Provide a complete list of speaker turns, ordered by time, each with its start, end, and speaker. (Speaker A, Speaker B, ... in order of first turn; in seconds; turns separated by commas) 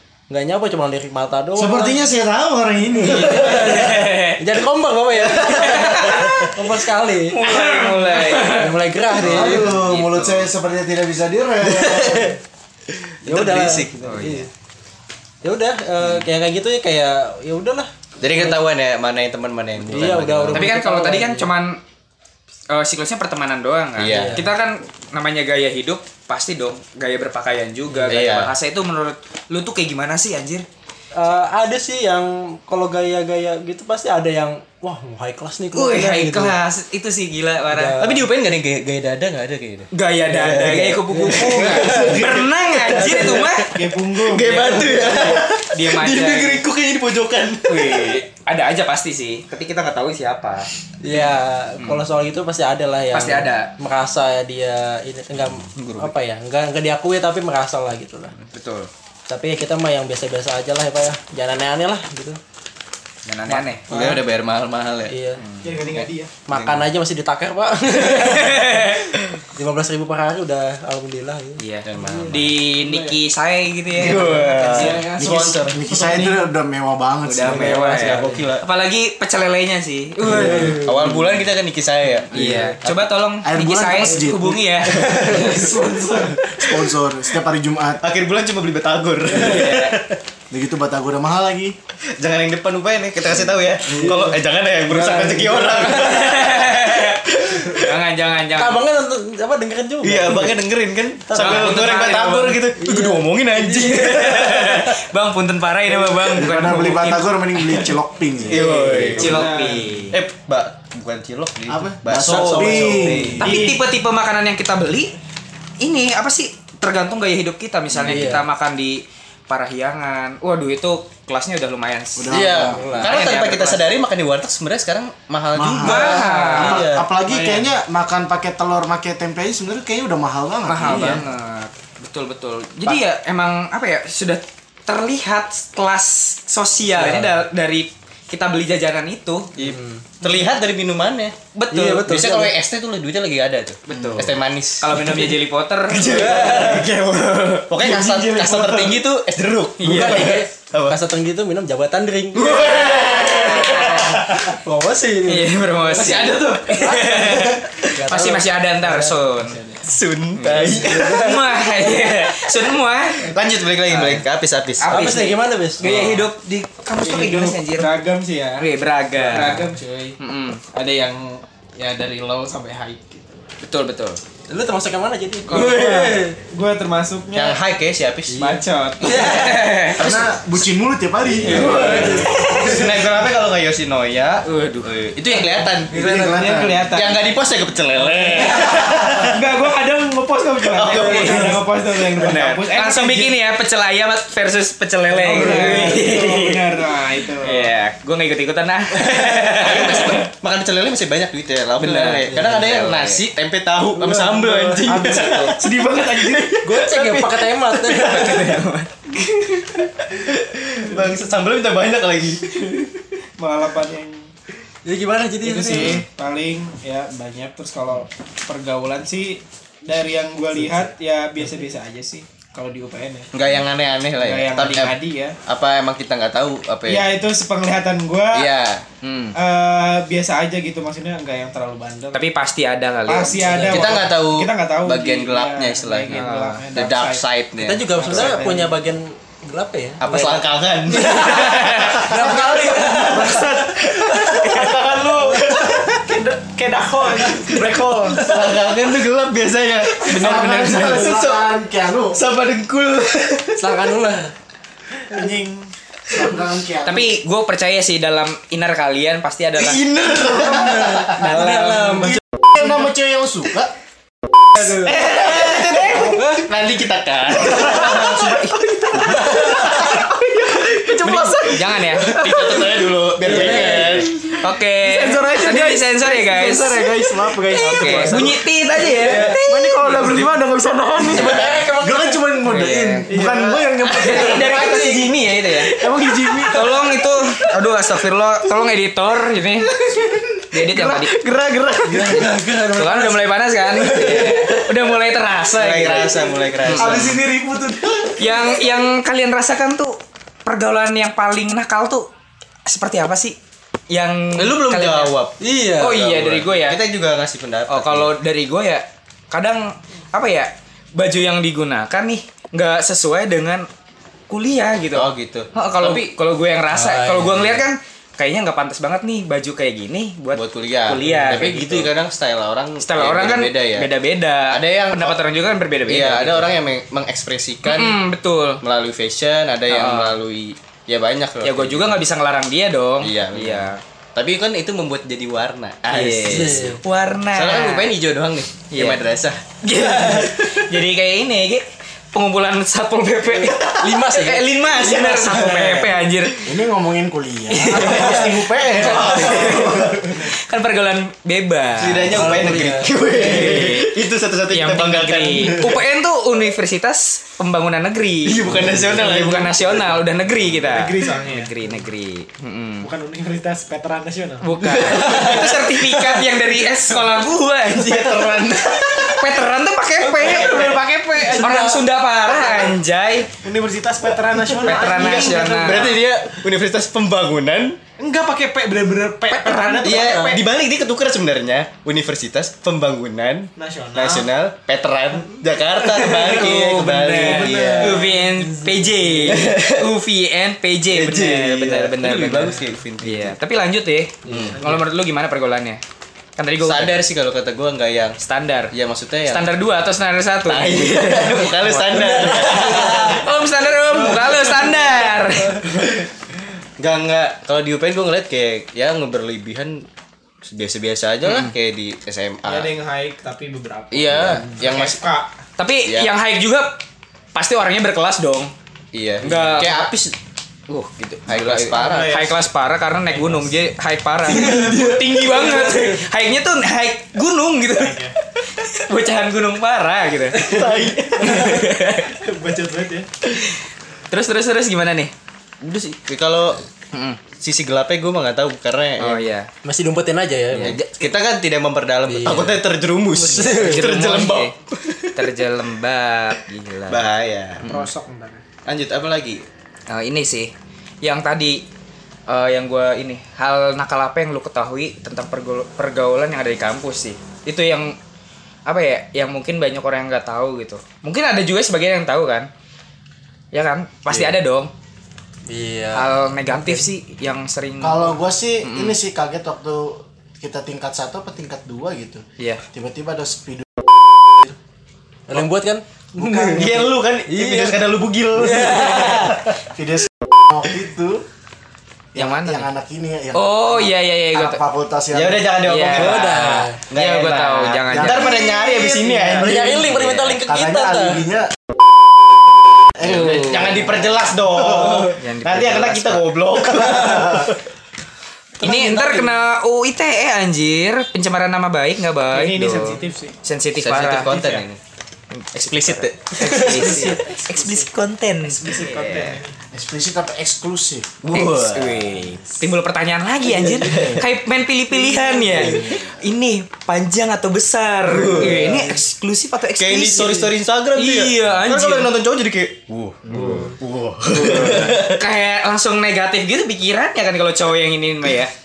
Speaker A: 0.3-2.0, Speaker B: 1.6-3.8, Speaker C: 3.0-4.4, Speaker A: 3.2-7.5, Speaker D: 5.2-6.5, Speaker C: 5.5-6.5, Speaker C: 7.3-10.5, Speaker A: 8.4-9.7, Speaker B: 9.2-12.4, Speaker D: 11.6-12.4, Speaker D: 13.2-14.2, Speaker A: 13.2-14.5, Speaker C: 14.0-14.5, Speaker A: 15.4-18.6, Speaker D: 18.2-20.7, Speaker A: 19.9-21.5, Speaker C: 20.5-21.8, Speaker C: 22.7-30.7, Speaker D: 24.0-24.4, Speaker A: 24.1-24.5, Speaker A: 27.9-28.2, Speaker D: 28.1-28.5, Speaker A: 31.1-36.6, Speaker C: 35.7-38.0, Speaker A: 37.7-38.3, Speaker D: 38.0-48.2, Speaker C: 39.9-43.7, Speaker A: 40.4-42.2, Speaker A: 43.0-43.4, Speaker E: 43.7-45.1, Speaker C: 44.6-46.6, Speaker C: 47.7-50.7, Speaker A: 51.0-58.4, Speaker C: 51.8-52.0, Speaker C: 53.1-53.7, Speaker D: 55.8-56.1, Speaker C: 58.4-58.9, Speaker A: 59.3-62.4, Speaker C: 63.3-63.9, Speaker A: 63.5-64.2, Speaker D: 63.9-65.1, Speaker A: 65.1-65.4, Speaker C: 65.4-65.8, Speaker E: 65.6-66.3, Speaker D: 65.9-66.9, Speaker A: 66.5-69.0, Speaker C: 68.2-69.1, Speaker A: 69.6-72.4, Speaker C: 71.6-75.0, Speaker D: 71.8-72.6, Speaker E: 72.9-73.1, Speaker D: 73.9-75.8, Speaker A: 74.3-75.0, Speaker E: 74.5-76.4, Speaker B: 75.2-77.8, Speaker C: 77.3-80.8, Speaker D: 77.3-78.7, Speaker A: 77.4-78.4, Speaker D: 80.3-83.0, Speaker A: 80.3-81.2, Speaker C: 82.3-85.0, Speaker B: 83.4-85.2, Speaker D: 85.0-85.7, Speaker A: 85.1-86.2, Speaker E: 85.2-86.5, Speaker B: 86.6-88.0, Speaker D: 88.0-90.2, Speaker C: 89.4-90.0, Speaker B: 90.5-91.8, Speaker D: 92.2-98.0, Speaker A: 93.9-94.3, Speaker B: 93.9-94.3, Speaker A: 94.9-96.3, Speaker C: 95.9-98.8, Speaker A: 98.6-100.6, Speaker D: 100.0-105.0, Speaker A: 101.3-101.8, Speaker C: 101.3-102.6, Speaker A: 102.8-104.1, Speaker C: 103.7-107.9, Speaker B: 106.3-108.8, Speaker D: 108.5-109.5, Speaker A: 108.5-109.2, Speaker C: 109.0-110.2, Speaker E: 109.2-110.0, Speaker D: 110.1-113.6, Speaker B: 111.7-113.6, Speaker A: 112.2-113.4, Speaker C: 113.4-115.1, Speaker E: 113.4-113.8, Speaker C: 115.8-122.4, Speaker A: 118.0-118.5, Speaker B: 122.2-122.9, Speaker D: 122.3-127.1, Speaker A: 122.6-123.2, Speaker C: 123.0-124.0, Speaker B: 125.5-131.2, Speaker C: 125.8-126.9, Speaker A: 126.0-126.8, Speaker E: 127.2-127.7, Speaker C: 130.7-139.5, Speaker D: 130.9-131.2, Speaker A: 130.9-131.2, Speaker A: 136.9-137.4, Speaker D: 139.6-141.4, Speaker A: 139.6-140.0, Speaker C: 141.6-142.1, Speaker A: 141.7-142.5, Speaker D: 142.0-145.3, Speaker C: 143.9-146.7, Speaker D: 145.9-151.0, Speaker A: 146.0-146.9, Speaker E: 147.8-148.9, Speaker C: 149.8-150.4, Speaker A: 149.8-152.7, Speaker D: 152.3-154.6, Speaker C: 152.5-154.3, Speaker A: 154.3-159.2, Speaker C: 155.3-159.6, Speaker E: 155.9-157.1, Speaker E: 159.3-159.9, Speaker D: 159.8-161.3, Speaker C: 160.4-163.3, Speaker A: 160.6-161.6, Speaker D: 163.2-165.2, Speaker C: 163.9-164.2, Speaker C: 164.8-168.0, Speaker A: 164.9-166.2, Speaker D: 165.8-166.2, Speaker E: 167.0-168.7, Speaker C: 168.6-170.6, Speaker A: 169.2-169.6, Speaker E: 169.2-173.5, Speaker C: 173.6-174.2, Speaker A: 174.5-176.4, Speaker E: 175.5-177.6, Speaker D: 175.5-176.2, Speaker D: 177.3-178.6, Speaker A: 178.3-179.6, Speaker E: 178.4-179.7, Speaker C: 179.0-180.0, Speaker D: 179.2-180.6, Speaker B: 180.0-182.1, Speaker D: 181.4-186.2, Speaker C: 181.5-182.8, Speaker E: 181.6-182.4, Speaker A: 181.6-182.9, Speaker C: 184.4-184.9, Speaker A: 185.9-186.5, Speaker B: 185.9-186.8, Speaker E: 186.0-187.2, Speaker D: 186.9-189.4, Speaker E: 188.3-193.3, Speaker D: 190.6-191.7, Speaker C: 191.0-191.6, Speaker A: 191.2-191.6, Speaker C: 192.1-196.8, Speaker E: 195.2-197.7, Speaker A: 195.4-196.0, Speaker D: 195.5-195.9, Speaker C: 197.4-200.3, Speaker D: 199.1-207.4, Speaker C: 201.8-203.2, Speaker A: 202.3-202.6, Speaker A: 204.0-205.5, Speaker C: 205.0-205.5, Speaker E: 205.4-206.6, Speaker A: 206.6-208.5, Speaker C: 207.7-208.9, Speaker D: 209.2-212.8, Speaker E: 213.4-214.3, Speaker A: 214.9-216.0, Speaker E: 215.4-223.3, Speaker D: 215.7-216.0, Speaker D: 223.3-227.1, Speaker E: 224.2-225.4, Speaker E: 226.9-228.5, Speaker D: 228.3-228.8, Speaker C: 229.0-229.3, Speaker E: 229.3-232.3, Speaker C: 232.1-233.9, Speaker E: 233.1-237.2, Speaker A: 233.4-233.9, Speaker D: 233.7-238.5, Speaker C: 236.1-236.7, Speaker A: 237.6-243.5, Speaker E: 237.9-238.8, Speaker D: 240.0-246.0, Speaker C: 241.0-242.0, Speaker E: 242.4-248.3, Speaker D: 247.5-251.5, Speaker C: 250.1-251.1, Speaker B: 250.1-252.2, Speaker D: 252.1-253.7, Speaker A: 253.6-254.3, Speaker E: 255.1-255.7, Speaker B: 256.1-257.1, Speaker C: 256.9-259.9, Speaker D: 259.6-262.1, Speaker B: 260.3-261.0, Speaker A: 260.5-262.2, Speaker C: 261.2-262.0, Speaker B: 262.4-263.7, Speaker A: 264.6-264.9, Speaker D: 264.6-274.4, Speaker C: 265.1-265.8, Speaker A: 265.9-266.4, Speaker C: 267.5-269.3, Speaker B: 267.7-268.2, Speaker A: 269.4-269.6, Speaker B: 271.0-271.4, Speaker C: 271.4-272.7, Speaker A: 273.2-274.1, Speaker C: 273.3-273.8, Speaker C: 274.4-276.9, Speaker B: 275.1-284.8, Speaker C: 277.6-279.7, Speaker D: 277.7-278.3, Speaker D: 278.8-279.2, Speaker E: 279.1-281.2, Speaker D: 279.9-280.2, Speaker D: 280.9-281.6, Speaker A: 281.0-282.5, Speaker C: 282.5-283.1, Speaker E: 283.1-283.5, Speaker C: 283.8-285.7, Speaker D: 284.1-285.7, Speaker E: 285.8-286.6, Speaker B: 285.8-286.6, Speaker C: 286.4-289.7, Speaker C: 290.5-291.1, Speaker D: 290.8-292.3, Speaker A: 291.9-294.6, Speaker C: 292.7-297.2, Speaker D: 295.6-297.2, Speaker B: 296.7-298.5, Speaker C: 298.2-302.1, Speaker C: 302.7-303.4, Speaker C: 303.9-305.1, Speaker D: 304.4-308.1, Speaker A: 305.4-306.1, Speaker C: 305.8-306.8, Speaker C: 307.7-313.7, Speaker C: 314.3-321.9, Speaker D: 314.9-316.0, Speaker A: 316.7-317.6, Speaker D: 320.4-323.9, Speaker A: 321.0-321.5, Speaker C: 322.8-326.6, Speaker D: 324.5-325.2, Speaker D: 325.9-328.0, Speaker C: 327.6-328.6, Speaker D: 328.6-332.0, Speaker C: 329.7-330.2, Speaker C: 331.4-333.8, Speaker D: 333.0-336.8, Speaker C: 335.9-338.0, Speaker A: 336.3-336.8, Speaker D: 337.3-340.5, Speaker C: 338.7-339.0, Speaker C: 339.6-346.5, Speaker D: 343.5-343.8, Speaker A: 343.7-345.8, Speaker D: 345.3-345.7, Speaker B: 346.4-349.7, Speaker C: 347.5-352.4, Speaker D: 347.7-348.2, Speaker D: 348.8-350.2, Speaker D: 351.8-355.8, Speaker A: 352.1-353.0, Speaker C: 353.1-354.0, Speaker C: 354.5-362.9, Speaker D: 358.2-359.9, Speaker E: 360.6-361.7, Speaker E: 362.8-365.3, Speaker C: 364.4-373.3, Speaker D: 364.7-365.7, Speaker D: 367.7-369.2, Speaker E: 370.0-371.8, Speaker D: 370.4-370.7, Speaker A: 371.2-371.8, Speaker E: 372.3-372.8, Speaker E: 373.4-376.0, Speaker C: 374.6-376.0, Speaker D: 374.6-377.8, Speaker E: 378.0-380.5, Speaker C: 379.3-380.2, Speaker D: 379.8-388.1, Speaker E: 383.6-384.3, Speaker C: 386.0-395.8, Speaker E: 386.2-388.1, Speaker A: 388.9-389.3, Speaker D: 389.2-389.9, Speaker D: 390.9-393.4, Speaker A: 394.3-394.6, Speaker D: 394.3-394.6, Speaker C: 396.4-397.0, Speaker D: 396.6-398.2, Speaker C: 398.2-398.7, Speaker D: 398.7-399.5, Speaker C: 399.3-405.6, Speaker D: 400.5-403.3, Speaker A: 401.8-403.2, Speaker D: 405.7-406.1, Speaker D: 406.8-409.9, Speaker D: 410.4-412.7, Speaker C: 411.2-411.5, Speaker E: 412.4-415.3, Speaker D: 413.9-415.0, Speaker C: 415.6-416.8, Speaker D: 415.9-416.1, Speaker C: 417.4-418.5, Speaker D: 418.9-420.1, Speaker C: 419.2-419.9, Speaker C: 420.7-430.7, Speaker D: 421.3-422.3, Speaker E: 421.8-422.3, Speaker E: 423.1-423.5, Speaker D: 424.3-425.7, Speaker E: 424.3-425.9, Speaker E: 427.8-428.1, Speaker D: 430.4-431.6, Speaker C: 431.2-432.2, Speaker E: 431.3-433.1, Speaker C: 433.3-435.1, Speaker D: 435.6-436.6, Speaker C: 436.9-437.2, Speaker D: 437.4-439.3, Speaker C: 439.0-439.5, Speaker A: 439.6-440.8, Speaker C: 440.5-441.1, Speaker D: 440.5-445.2, Speaker A: 442.1-444.0, Speaker C: 443.4-444.5, Speaker C: 445.2-447.1, Speaker D: 446.9-447.7, Speaker C: 447.6-447.9, Speaker E: 447.6-448.4, Speaker D: 448.7-449.4, Speaker C: 449.9-450.5, Speaker C: 451.0-451.6, Speaker C: 452.3-458.0, Speaker C: 458.7-462.5, Speaker C: 463.5-464.7, Speaker A: 465.5-466.9, Speaker C: 465.9-469.0, Speaker B: 467.8-474.5, Speaker A: 475.3-479.5, Speaker D: 476.2-479.6, Speaker B: 479.6-481.2, Speaker C: 482.1-482.7, Speaker B: 482.1-485.6, Speaker C: 483.3-484.6, Speaker D: 485.1-490.1, Speaker C: 485.6-488.6, Speaker A: 485.9-486.8, Speaker B: 487.9-491.6, Speaker A: 489.4-491.3, Speaker C: 489.9-490.2, Speaker B: 493.0-493.9, Speaker C: 493.0-493.9, Speaker D: 493.0-497.6, Speaker B: 494.5-495.1, Speaker C: 495.0-496.4, Speaker B: 496.9-497.5, Speaker A: 498.6-499.4, Speaker C: 498.6-504.5, Speaker E: 502.3-503.4, Speaker D: 503.8-504.8, Speaker E: 504.3-504.6, Speaker C: 505.3-509.4, Speaker D: 505.6-507.2, Speaker A: 506.4-507.2, Speaker E: 506.6-507.9, Speaker E: 508.5-509.6, Speaker B: 509.7-511.2, Speaker D: 511.2-512.1, Speaker C: 511.3-522.1, Speaker D: 513.4-514.3, Speaker B: 515.5-516.1, Speaker D: 515.5-515.8, Speaker D: 518.1-518.9, Speaker D: 519.8-525.2, Speaker B: 523.3-523.7, Speaker C: 524.3-528.5